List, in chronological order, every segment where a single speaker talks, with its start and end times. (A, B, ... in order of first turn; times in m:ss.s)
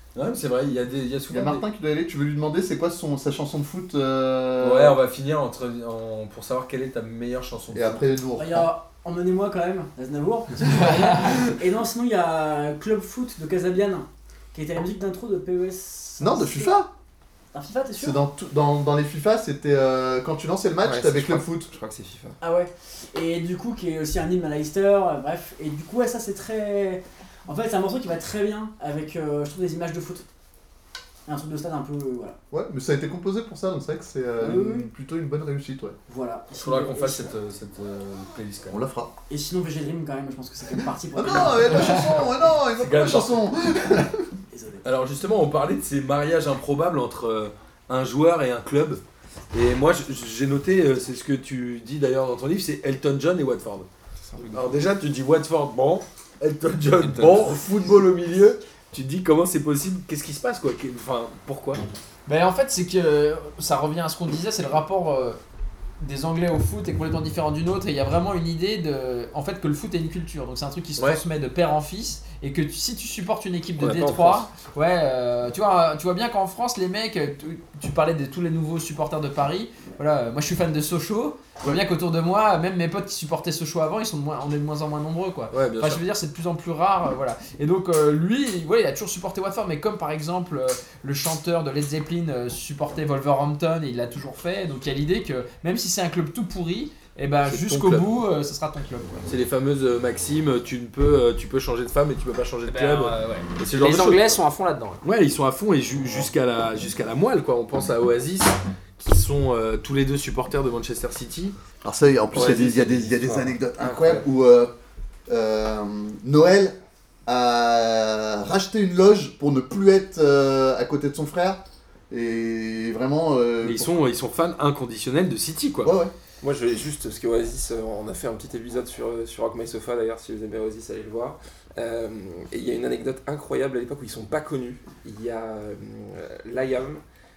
0:00.1-0:01.6 A
0:01.3-0:05.0 B
0:04.6-0:08.1 A
0:07.7-0:08.7 B
0:08.4-0:16.8 C
0:10.7-0:11.3 D
0:16.2-0:16.9 B
0:17.5-0:18.2 C
0:18.0-0:21.7 B
0:20.8-0:22.4 E
0:22.4-0:30.2 C
0:31.2-0:32.4 C
0:32.5-0:36.0 B
0:34.4-0:34.9 C
0:36.1-0:37.3 C
0:36.5-0:38.8 A
0:38.7-0:39.1 B
0:39.3-0:42.2 C
0:41.1-0:44.3 B
0:42.7-0:43.5 A
0:44.5-0:44.8 C
0:44.8-0:49.0 A
0:49.5-0:53.9 A
0:54.2-0:54.9 E
0:54.5-1:01.8 A
0:57.0-0:57.6 E
1:02.2-1:05.4 D
1:06.0-1:39.2 D
1:13.8-1:14.5 E
1:25.5-1:26.0 A
1:37.4-1:38.1 A
1:39.2-1:44.4 A
1:42.6-1:45.0 D
1:45.0-1:51.6 A
1:51.8-1:54.7 B
1:52.3-1:54.2 E
1:55.3-1:56.8 B
1:57.3-2:04.0 B
2:03.6-2:05.9 A
2:05.8-2:06.1 B
2:06.4-2:17.0 E